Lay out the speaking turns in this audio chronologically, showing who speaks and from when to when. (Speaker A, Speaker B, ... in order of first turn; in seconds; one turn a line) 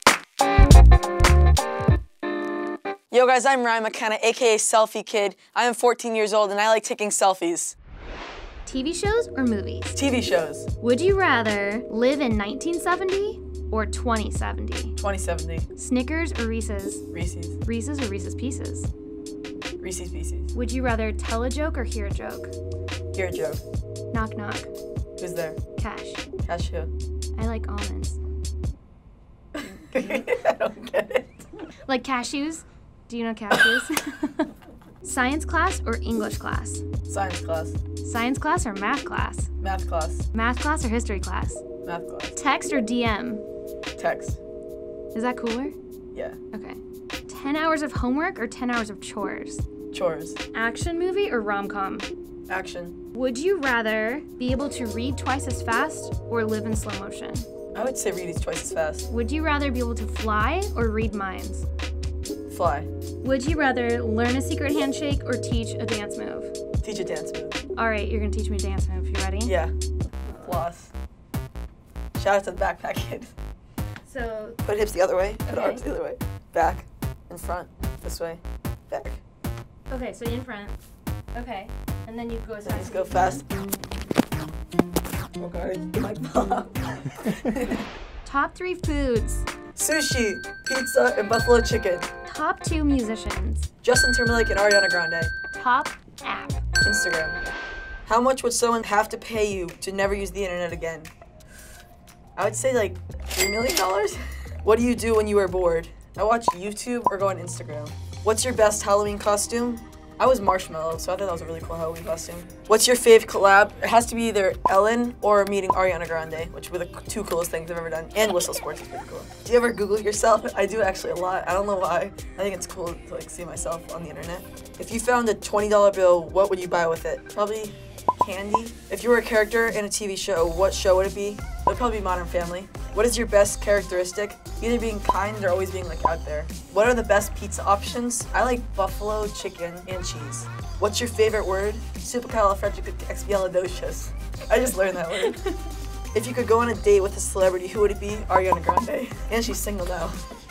Speaker A: 3.1-7.8
Speaker B: 8.7-10.0
Speaker A: 9.9-10.7
Speaker B: 10.8-15.0
Speaker A: 15.0-15.7
Speaker B: 15.8-17.1
Speaker A: 17.1-17.6
Speaker B: 17.6-18.9
Speaker A: 19.8-20.5
Speaker B: 20.5-22.5
Speaker A: 23.1-23.6
Speaker B: 24.1-24.7
Speaker A: 25.2-25.6
Speaker B: 25.8-26.2
Speaker A: 26.4-26.9
Speaker B: 27.3-28.2
Speaker A: 29.6-31.4
Speaker B: 31.9-34.5
Speaker A: 33.5-33.8
Speaker B: 35.0-36.8
Speaker A: 37.1-37.8
Speaker B: 38.0-39.5
Speaker A: 39.6-40.3
Speaker B: 40.3-41.6
Speaker A: 41.8-42.4
Speaker B: 42.4-43.5
Speaker A: 44.0-44.4
Speaker B: 45.1-45.8
Speaker A: 46.1-46.4
Speaker B: 46.5-49.6
Speaker A: 49.9-50.4
Speaker B: 50.5-52.1
Speaker A: 52.5-53.0
Speaker B: 53.1-57.5
Speaker A: 57.7-59.1
Speaker B: 59.1-61.6
Speaker A: 62.5-62.9
Speaker B: 63.2-66.5
Speaker A: 66.8-67.6
Speaker B: 67.8-69.5
Speaker A: 69.5-69.7
Speaker A: 70.3-70.9
Speaker A: 72.2-73.3
Speaker B: 74.1-74.6
Speaker A: 74.6-79.2
Speaker B: 75.5-75.8
Speaker B: 79.9-80.8
Speaker B: 81.3-83.3
Speaker A: 82.6-83.5
Speaker A: 85.4-87.9
Speaker B: 88.2-89.5
Speaker A: 89.8-92.1
Speaker B: 92.3-93.7
Speaker A: 93.8-95.3
Speaker B: 95.5-96.6
Speaker A: 96.8-97.4
Speaker A: 98.1-101.1
Speaker A: 102.4-145.5
Speaker B: 145.2-145.5
Speaker A: 146.1-150.2